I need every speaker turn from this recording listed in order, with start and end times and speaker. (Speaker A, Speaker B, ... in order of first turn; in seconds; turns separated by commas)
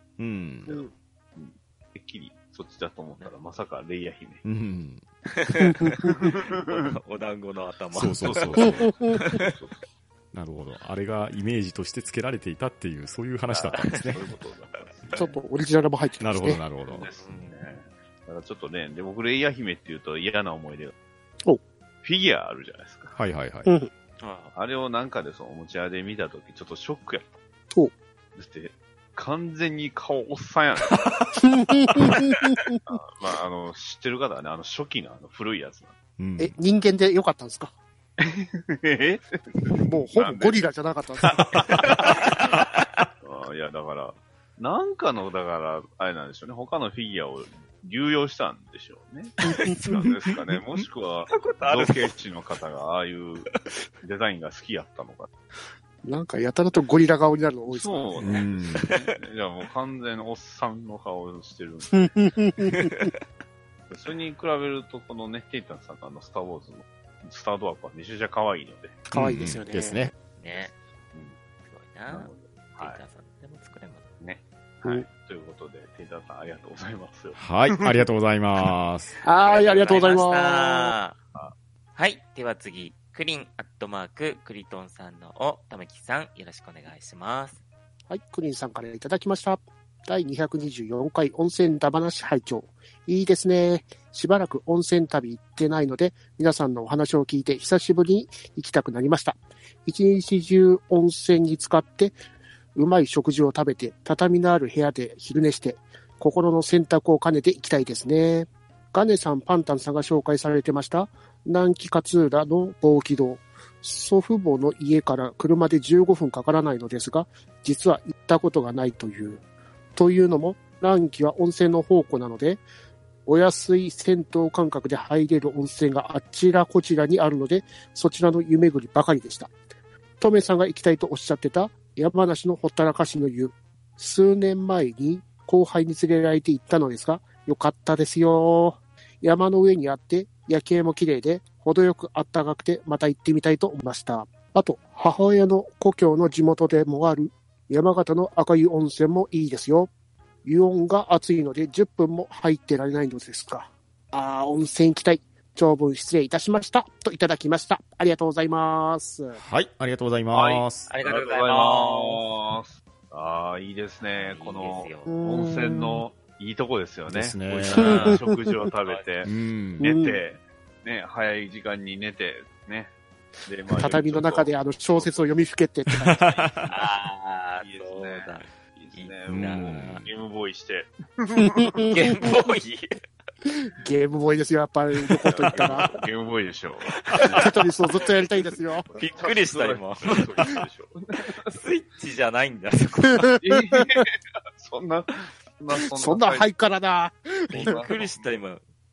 Speaker A: 0.2-0.7, Speaker B: 0.6-4.4, Speaker C: 0.7-0.9, Speaker A: 4.4-5.0, Speaker D: 5.3-9.5, Speaker C: 5.8-6.1, Speaker B: 6.0-7.0, Speaker A: 7.9-8.9, Speaker B: 8.2-9.8, Speaker C: 8.6-9.3, Speaker A: 10.3-14.2, Speaker B: 13.5-15.3, Speaker D: 13.8-14.1, Speaker C: 15.1-16.6, Speaker A: 16.2-17.1, Speaker B: 16.9-20.9, Speaker D: 16.9-17.6, Speaker B: 22.0-23.2, Speaker A: 23.1-23.7, Speaker C: 23.6-23.9, Speaker D: 24.2-24.5, Speaker B: 24.5-27.4, Speaker B: 28.3-31.3, Speaker C: 31.3-32.8, Speaker B: 32.9-35.9, Speaker A: 36.2-36.5, Speaker C: 36.4-37.7, Speaker B: 38.2-40.6, Speaker C: 39.8-41.7, Speaker B: 41.3-42.3, Speaker D: 41.6-43.1, Speaker B: 43.2-53.5, Speaker D: 49.4-50.2, Speaker D: 51.3-52.1, Speaker B: 54.0-55.3, Speaker C: 56.0-58.4, Speaker B: 57.7-62.4, Speaker A: 58.2-58.9, Speaker C: 61.9-63.1, Speaker D: 62.7-63.1, Speaker B: 63.9-69.0, Speaker C: 69.1-70.1, Speaker A: 69.1-70.1, Speaker D: 70.4-70.7, Speaker D: 71.6-74.0, Speaker B: 72.1-73.0, Speaker B: 74.2-78.0, Speaker A: 77.3-79.1, Speaker C: 79.2-80.9, Speaker D: 79.4-81.2, Speaker D: 82.0-87.6, Speaker C: 88.1-102.1, Speaker C: 102.7-119.4, Speaker C: 120.0-122.6, Speaker C: 123.2-129.5, Speaker C: 130.2-149.9, Speaker C: 150.4-159.4, Speaker A: 159.3-160.9, Speaker B: 160.3-175.3, Speaker D: 160.9-162.2, Speaker D: 164.0-165.1, Speaker C: 165.1-166.0, Speaker A: 167.1-168.1, Speaker D: 167.7-169.3, Speaker C: 167.8-168.6, Speaker A: 169.2-169.9, Speaker C: 169.8-170.2, Speaker C: 173.8-176.2, Speaker A: 175.9-176.7, Speaker D: 176.4-180.0, Speaker B: 177.6-181.9, Speaker A: 179.3-180.1, Speaker C: 181.4-182.3, Speaker D: 181.9-182.9, Speaker C: 183.4-185.9, Speaker B: 185.2-187.5, Speaker D: 185.3-186.0, Speaker D: 186.9-187.5, Speaker C: 187.3-188.9, Speaker B: 188.4-191.6, Speaker D: 188.9-190.5, Speaker D: 191.5-193.4, Speaker C: 193.1-193.8, Speaker B: 193.4-196.4, Speaker C: 195.9-197.8, Speaker B: 197.5-198.2, Speaker D: 197.5-198.6